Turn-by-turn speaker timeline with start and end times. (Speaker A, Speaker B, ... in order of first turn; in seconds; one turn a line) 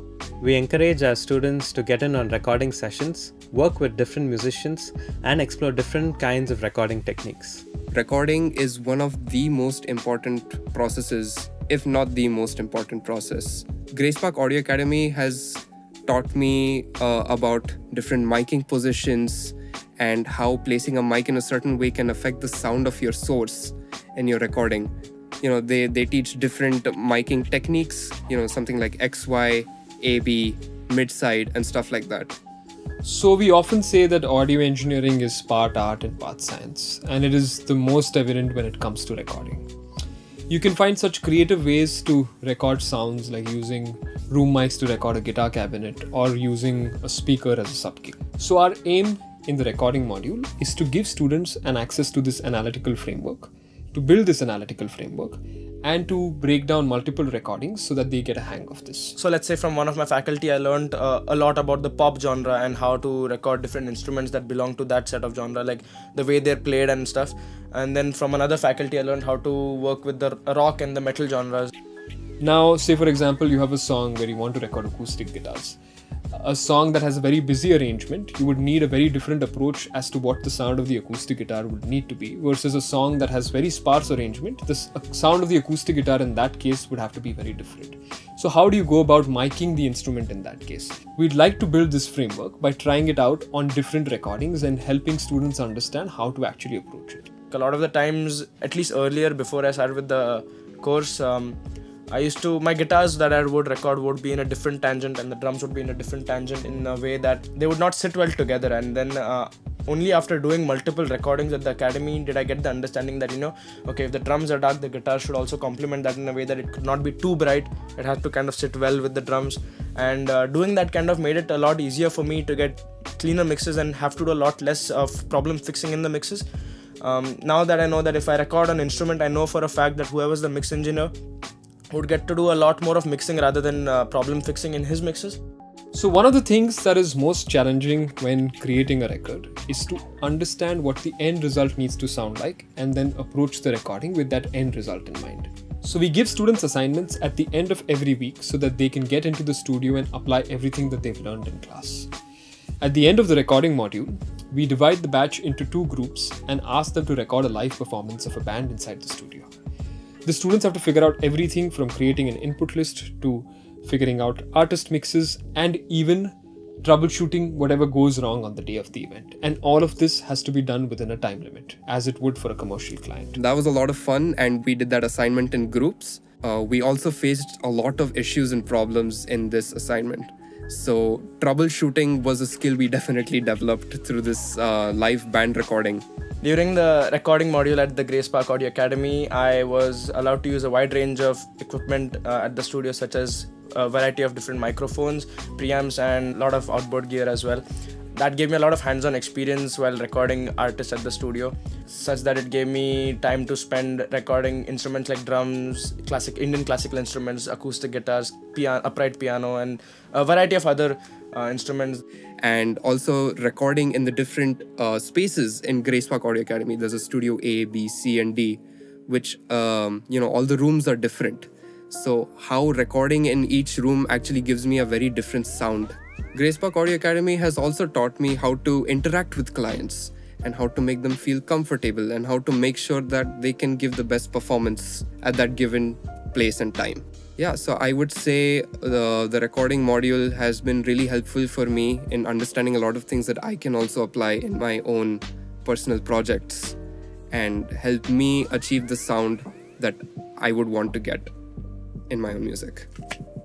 Speaker A: 0.4-7.6
Speaker B: 7.9-32.4
Speaker C: 33.0-39.6
Speaker C: 40.5-59.1
Speaker D: 59.2-71.7
Speaker C: 72.4-75.8
Speaker C: 76.3-97.3
Speaker D: 97.5-101.6
Speaker D: 102.1-126.4
Speaker D: 127.0-131.1
Speaker D: 131.9-135.4
Speaker C: 135.9-152.1
Speaker C: 152.8-159.5
Speaker C: 160.2-173.4
Speaker B: 173.3-186.0
Speaker D: 186.4-197.6
Speaker D: 198.1-212.0
Speaker B: 212.4-246.8
Speaker B: 247.3-251.3
Speaker B: 252.1-252.9